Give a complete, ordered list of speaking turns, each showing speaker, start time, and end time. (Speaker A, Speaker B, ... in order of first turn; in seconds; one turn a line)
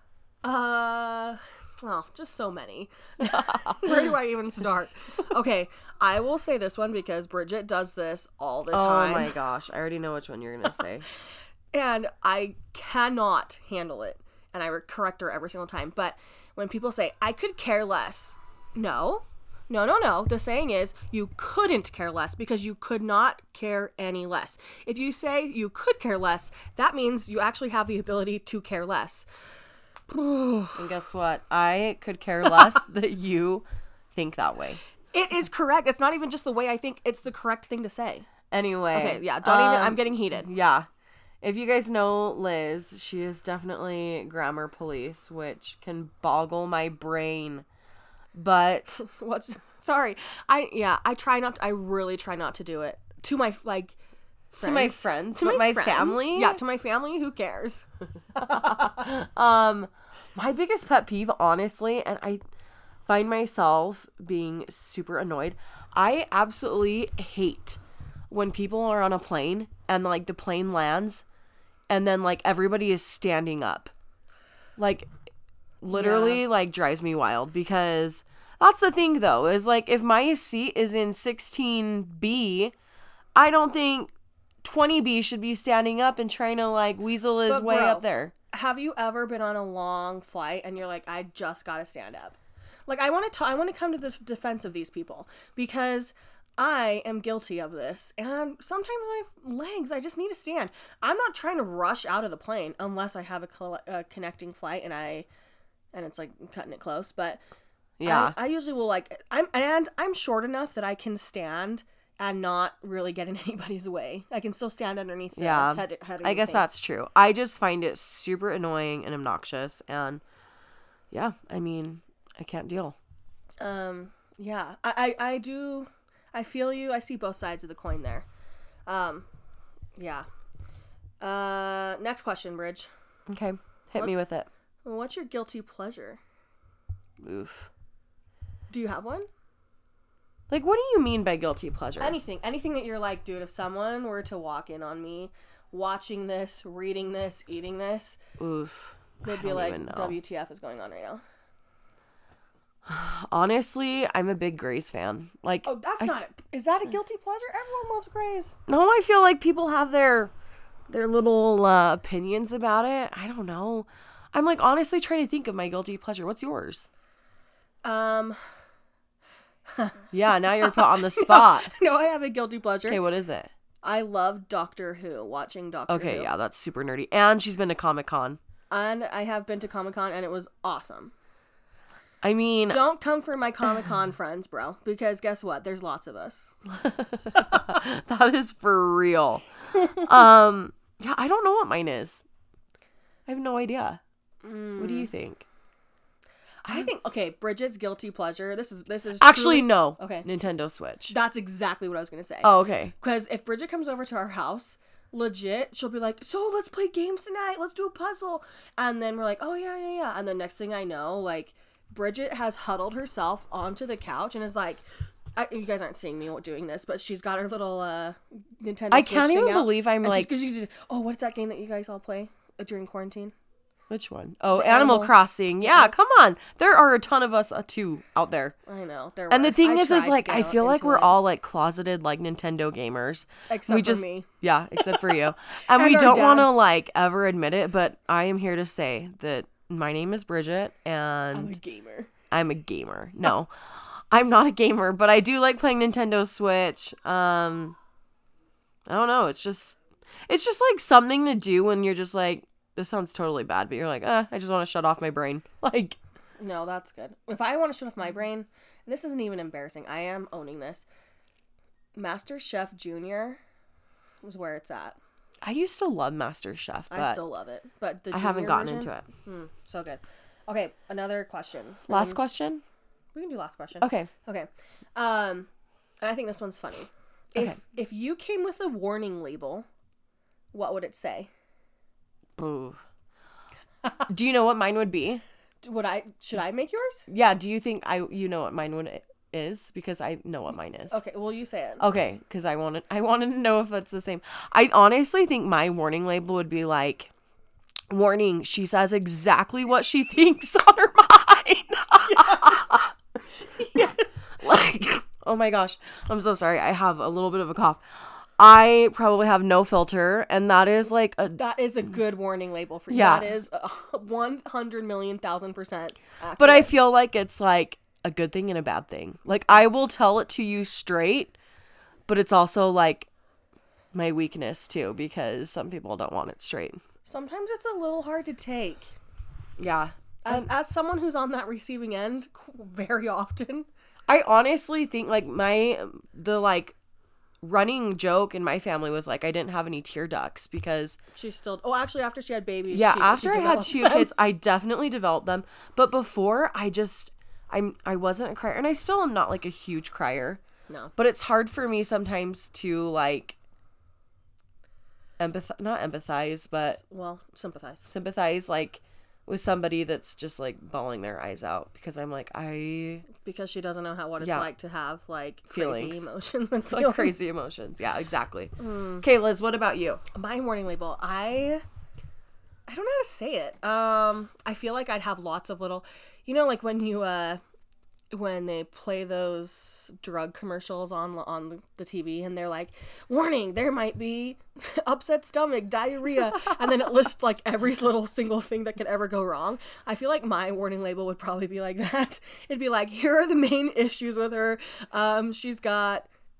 Speaker A: 0.4-9.4
Speaker B: 3.3-3.8
Speaker B: 8.7-11.1
Speaker A: 11.7-29.3
Speaker A: 30.1-30.8
Speaker B: 30.7-34.8
Speaker A: 35.1-38.3
Speaker B: 38.5-40.9
Speaker A: 38.9-40.5
Speaker B: 41.4-47.6
Speaker B: 48.3-49.0
Speaker A: 49.0-54.0
Speaker A: 54.5-58.9
Speaker B: 54.6-56.6
Speaker B: 58.4-62.4
Speaker B: 63.1-71.2
Speaker B: 71.9-73.9
Speaker B: 74.8-75.1
Speaker B: 75.8-82.7
Speaker A: 75.9-76.4
Speaker B: 83.3-84.1
Speaker B: 84.6-88.3
Speaker A: 87.5-92.4
Speaker A: 92.9-105.3
Speaker A: 105.9-107.4
Speaker B: 108.0-108.3
Speaker A: 108.0-116.7
Speaker B: 115.3-120.2
Speaker B: 121.1-123.0
Speaker A: 123.6-128.2
Speaker A: 128.9-129.3
Speaker A: 130.0-130.2
Speaker A: 131.2-132.9
Speaker B: 133.3-134.5
Speaker A: 134.8-136.2
Speaker B: 137.2-137.7
Speaker A: 138.7-139.3
Speaker B: 140.5-142.2
Speaker A: 142.0-148.2
Speaker B: 148.4-150.2
Speaker A: 149.2-151.2
Speaker B: 152.8-156.1
Speaker A: 155.6-158.6
Speaker B: 158.7-160.3
Speaker B: 160.9-166.9
Speaker A: 167.8-168.4
Speaker A: 169.7-173.0
Speaker B: 170.1-171.7
Speaker B: 172.9-173.5
Speaker A: 173.8-176.3
Speaker B: 175.9-178.4
Speaker A: 178.7-181.1
Speaker B: 182.2-182.8
Speaker A: 182.7-186.6
Speaker B: 186.7-192.2
Speaker B: 193.3-194.0
Speaker A: 194.4-195.1
Speaker B: 194.8-195.4
Speaker A: 196.7-200.2
Speaker B: 199.2-201.1
Speaker A: 201.1-214.8
Speaker B: 202.4-202.9
Speaker A: 215.3-223.3
Speaker B: 218.9-220.3
Speaker B: 223.9-228.5
Speaker A: 224.5-225.9
Speaker A: 228.7-231.2
Speaker B: 229.3-241.6
Speaker A: 233.5-234.3
Speaker A: 234.8-236.5
Speaker A: 241.3-242.1
Speaker B: 242.3-247.8
Speaker B: 248.9-256.0
Speaker A: 256.4-260.9
Speaker A: 261.9-263.4
Speaker A: 264.2-265.0
Speaker B: 265.4-267.2
Speaker A: 266.9-272.2
Speaker B: 268.1-269.1
Speaker B: 271.9-272.6
Speaker A: 273.1-275.5
Speaker B: 273.8-274.1
Speaker A: 276.0-279.7
Speaker A: 280.5-281.3
Speaker B: 282.4-282.8
Speaker B: 284.1-285.2
Speaker A: 285.6-287.1
Speaker B: 287.1-291.0
Speaker A: 290.9-291.8
Speaker B: 291.8-297.1
Speaker B: 297.9-302.9
Speaker A: 302.1-302.6
Speaker A: 303.6-304.3
Speaker B: 304.4-311.4
Speaker A: 311.4-316.7
Speaker B: 312.9-313.3
Speaker B: 316.4-321.4
Speaker B: 322.1-323.1
Speaker B: 323.9-326.8
Speaker A: 327.0-328.9
Speaker B: 329.6-330.5
Speaker A: 330.2-333.7
Speaker B: 334.1-336.8
Speaker B: 337.4-341.0
Speaker A: 341.1-344.1
Speaker B: 342.7-350.4
Speaker B: 351.0-353.4
Speaker B: 355.2-356.8
Speaker A: 356.7-357.9
Speaker B: 357.8-363.1
Speaker A: 363.2-367.2
Speaker B: 364.2-364.5
Speaker B: 365.5-366.1
Speaker B: 366.7-370.0
Speaker A: 368.6-369.0
Speaker A: 370.1-371.6
Speaker A: 372.7-377.4
Speaker A: 378.1-396.1